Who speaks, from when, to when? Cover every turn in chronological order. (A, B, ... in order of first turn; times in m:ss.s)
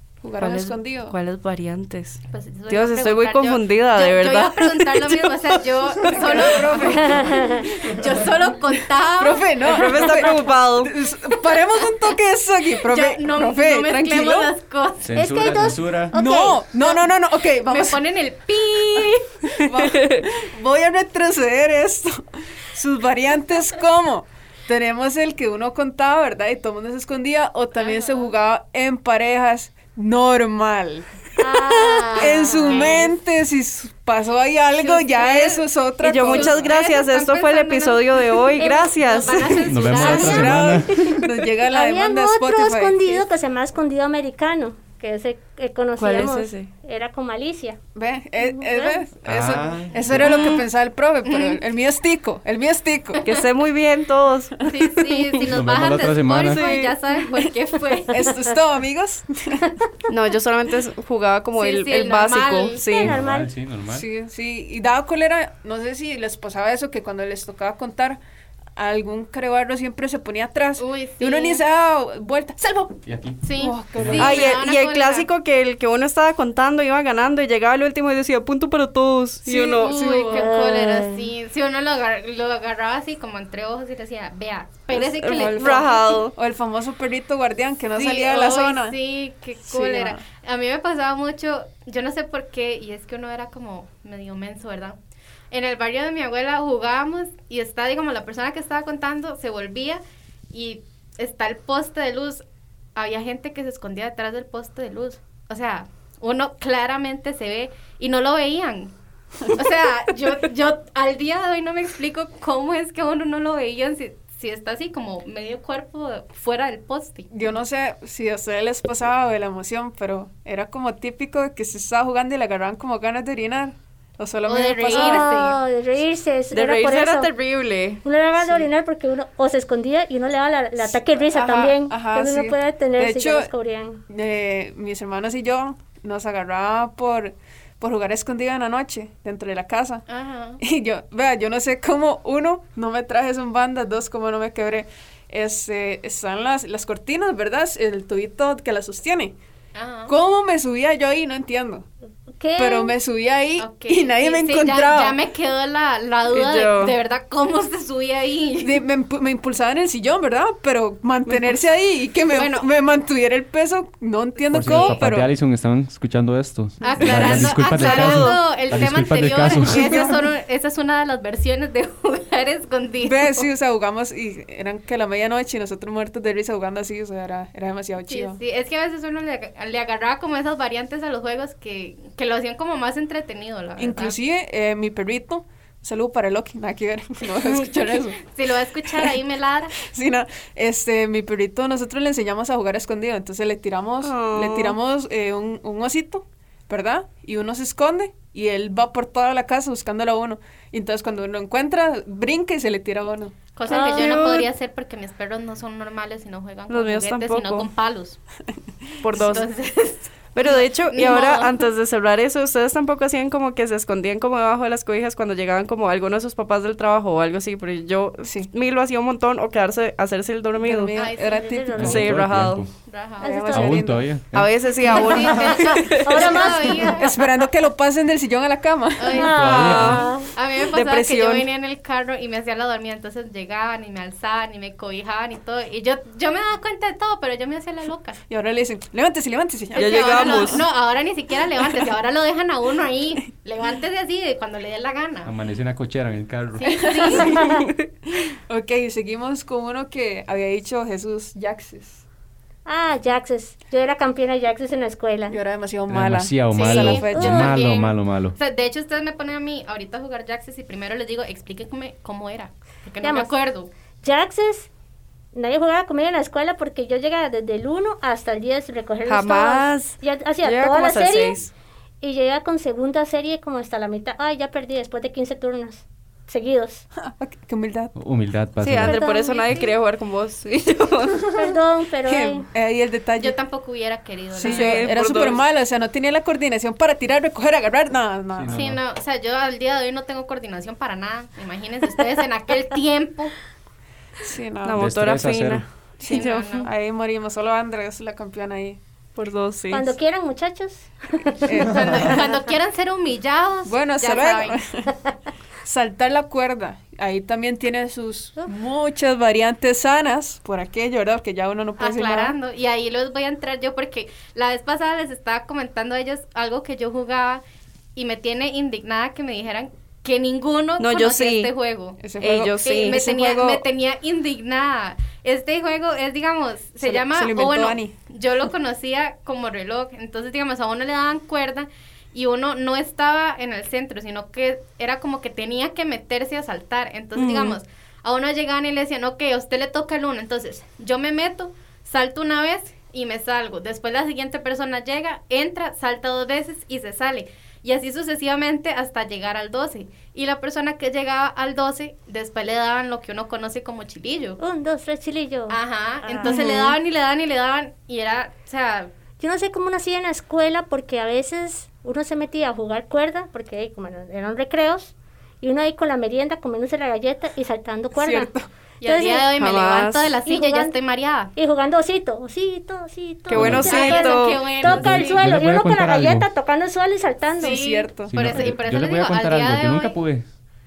0:00.2-0:01.2 A
0:00.4-0:05.6 B
0:02.3-0:10.2 C
0:06.0-0:08.0 A
0:06.9-0:07.7 D
0:09.1-0:14.5 A
0:09.6-0:10.9 B
0:12.8-0:15.3 C
0:15.0-0:16.1 E
0:15.1-0:16.9 D
0:16.1-0:18.0 A
0:17.6-0:19.4 C
0:19.5-0:36.7 A
0:19.7-0:20.2 B
0:27.7-0:28.3 C
0:31.4-0:32.4 D
0:31.4-0:33.1 C
0:34.8-0:35.7 C
0:36.0-0:40.2 B
0:36.2-0:40.7 C
0:38.6-0:39.4 D
0:39.6-0:41.1 E
0:39.9-0:43.3 A
0:39.9-0:47.8 D
0:46.0-0:46.7 B
0:47.9-0:53.2 A
0:48.4-0:49.0 D
0:49.2-0:50.5 E
0:50.1-0:50.6 C
0:51.2-0:51.6 C
0:53.1-0:53.4 C
0:53.2-0:55.1 B
0:54.6-0:58.3 C
0:55.4-0:56.6 E
0:56.4-0:56.9 B
0:58.1-0:59.7 A
1:00.1-1:03.2 B
1:01.5-1:02.8 C
1:02.8-1:03.5 D
1:03.0-1:04.0 E
1:03.9-1:08.2 A
1:08.8-1:12.9 A
1:10.8-1:11.6 C
1:13.0-1:13.4 E
1:13.4-1:15.3 C
1:13.6-1:14.6 A
1:14.0-1:14.3 E
1:14.2-1:19.9 B
1:19.4-1:20.5 A
1:19.8-1:26.2 C
1:20.3-1:21.3 D
1:24.9-1:26.3 B
1:25.3-1:29.0 A
1:27.9-1:35.0 C
1:29.6-1:30.2 A
1:35.5-1:42.4 C
1:42.9-1:48.9 C
1:49.4-1:57.4 C
1:57.3-2:05.3 A
2:04.4-2:05.6 C
2:04.9-2:07.3 D
2:06.5-2:08.0 B
2:08.0-2:14.0 D
2:11.2-2:13.5 A
2:14.1-2:20.0 A
2:20.1-2:20.6 C
2:20.6-2:29.4 A
2:29.7-2:30.1 C
2:30.1-2:31.9 A
2:32.4-2:32.9 D
2:32.6-2:35.2 A
2:33.6-2:38.8 C
2:36.3-2:36.9 B
2:38.6-2:45.3 A
2:42.3-2:42.7 C
2:44.5-2:50.1 E
2:44.6-2:45.0 C
2:46.8-2:53.4 C
2:47.0-2:48.3 A
2:47.0-2:48.4 B
2:49.6-2:50.2 A
2:53.0-2:58.4 A
2:58.1-3:04.2 C
3:03.8-3:08.2 A
3:08.2-3:09.8 C
3:08.8-3:09.2 A
3:09.8-3:23.4 A
3:14.0-3:14.8 B
3:23.6-3:28.2 C
3:23.7-3:24.1 D
3:23.7-3:24.5 B
3:26.7-3:27.7 B
3:29.0-3:29.5 B
3:29.1-3:31.6 C
3:29.1-3:29.4 A
3:30.3-3:40.9 B
3:38.2-3:38.5 A
3:40.6-3:42.1 A
3:40.9-3:41.6 C
3:41.2-3:42.1 D
3:41.8-3:42.6 B
3:41.8-3:42.7 E
3:42.8-3:43.5 C
3:43.2-3:43.9 D
3:43.2-3:44.0 A
3:43.5-3:44.6 E
3:44.3-3:46.4 B
3:44.8-3:47.2 C
3:45.4-3:47.0 D
3:46.3-3:49.3 A
3:49.0-3:58.2 C
3:49.1-3:50.3 D
3:49.2-3:50.1 E
3:49.5-3:50.1 B
3:50.6-3:51.5 B
3:58.3-4:00.7 A
3:59.7-4:05.3 C
3:59.7-4:00.6 B
4:05.2-4:06.9 E
4:06.6-4:07.5 C
4:06.6-4:07.5 A
4:07.2-4:07.7 B
4:07.2-4:07.6 D
4:08.5-4:12.0 A
4:12.6-4:15.4 D
4:15.3-4:17.6 A
4:15.9-4:18.4 E
4:16.5-4:23.7 C
4:17.1-4:17.5 D
4:23.0-4:23.3 D
4:24.0-4:24.7 D
4:25.3-4:36.8 D
4:29.0-4:31.5 B
4:37.0-4:37.9 A
4:37.9-4:39.0 E
4:38.6-4:41.5 B
4:38.8-4:39.7 D
4:41.3-4:42.5 D
4:42.0-4:43.4 A
4:43.2-4:45.0 C
4:44.3-4:48.6 A
4:44.4-4:45.4 B
4:48.4-4:48.8 E
4:48.5-4:53.4 C
4:54.2-4:54.9 A
4:54.6-4:56.7 B
4:54.8-4:55.6 E
4:56.0-4:58.8 A
4:56.0-4:56.7 C
4:59.2-4:59.9 B
4:59.7-5:02.2 D
5:01.4-5:02.2 A
5:01.6-5:04.6 C
5:03.6-5:04.9 A
5:05.6-5:12.4 A
5:11.8-5:17.4 C
5:17.9-5:22.0 C
5:20.8-5:21.5 B
5:22.0-5:23.6 A
5:22.2-5:23.0 B
5:22.6-5:54.4 C
5:26.8-5:27.9 A
5:37.2-5:37.6 B
5:54.4-5:56.5 D
5:55.5-5:58.9 C
5:56.2-5:56.5 B
5:59.2-6:09.3 D
6:07.9-6:08.5 A
6:08.8-6:11.3 C
6:09.4-6:10.1 B
6:10.2-6:10.8 D
6:11.4-6:17.6 D
6:13.3-6:14.5 B
6:13.3-6:13.8 E
6:13.6-6:15.2 C
6:14.5-6:16.3 E
6:17.4-6:20.0 C
6:17.4-6:18.1 A
6:18.1-6:20.2 E